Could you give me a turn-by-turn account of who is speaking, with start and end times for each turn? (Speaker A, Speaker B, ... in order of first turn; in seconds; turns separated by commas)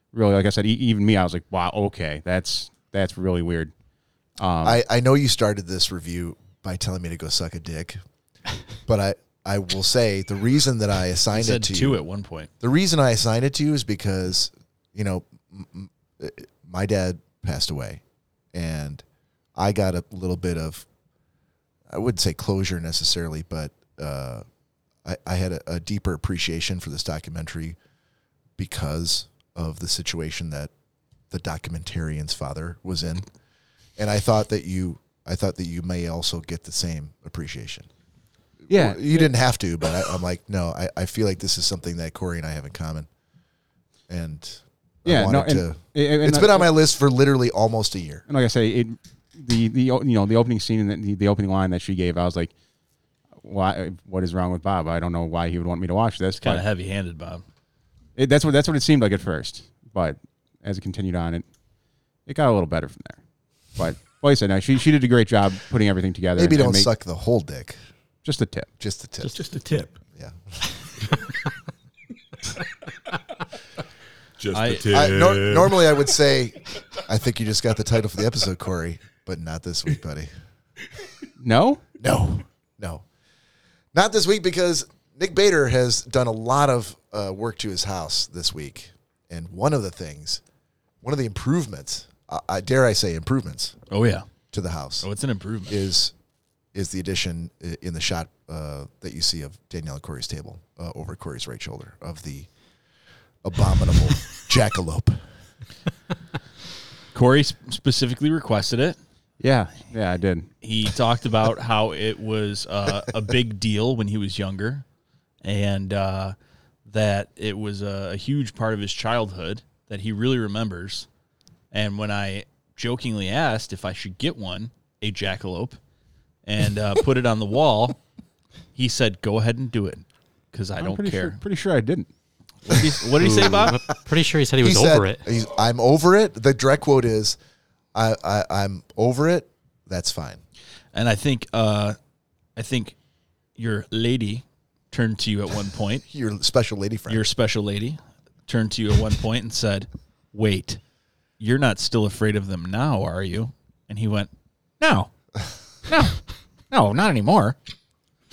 Speaker A: 0.1-3.7, Speaker A: 4.4-4.8, Speaker B: 4.6-8.0, Speaker B: 8.9-12.0, Speaker C: 11.3-12.5, Speaker B: 12.6-18.0, Speaker B: 18.5-19.0, Speaker B: 19.6-20.9, Speaker B: 21.9-24.4, Speaker B: 25.0-27.8, Speaker B: 28.6-30.7, Speaker B: 31.3-33.3, Speaker B: 34.0-37.9, Speaker B: 38.7-43.1, Speaker A: 38.7-39.3, Speaker B: 44.1-48.2, Speaker A: 45.1-46.7, Speaker A: 48.3-52.5, Speaker A: 53.4-56.6, Speaker C: 56.4-57.4, Speaker A: 58.2-61.5, Speaker A: 62.3-63.2, Speaker A: 63.8-66.9, Speaker B: 66.3-67.8, Speaker A: 68.2-68.7, Speaker B: 68.8-69.3, Speaker D: 69.2-70.0, Speaker B: 70.2-70.5, Speaker D: 74.4-75.9, Speaker C: 74.5-74.9, Speaker B: 74.9-80.3, Speaker A: 81.4-81.8, Speaker B: 82.0-83.0, Speaker B: 83.9-90.4, Speaker B: 91.0-93.8, Speaker C: 93.9-94.3, Speaker B: 94.5-95.1, Speaker C: 95.0-95.8, Speaker B: 95.7-96.1, Speaker B: 96.7-102.5, Speaker B: 103.4-105.2, Speaker C: 107.1-109.0, Speaker A: 109.4-110.5, Speaker C: 110.6-114.8, Speaker C: 115.4-121.1, Speaker C: 121.7-125.8, Speaker C: 126.5-128.0, Speaker C: 128.8-131.4, Speaker A: 130.8-132.1, Speaker C: 132.7-133.8, Speaker E: 133.2-135.2, Speaker B: 134.6-137.4, Speaker B: 137.9-140.4, Speaker C: 140.9-142.0, Speaker C: 142.6-142.9, Speaker C: 143.6-146.0, Speaker B: 146.1-147.2, Speaker C: 147.1-150.8, Speaker C: 151.4-155.1, Speaker C: 155.9-156.2, Speaker C: 156.7-157.6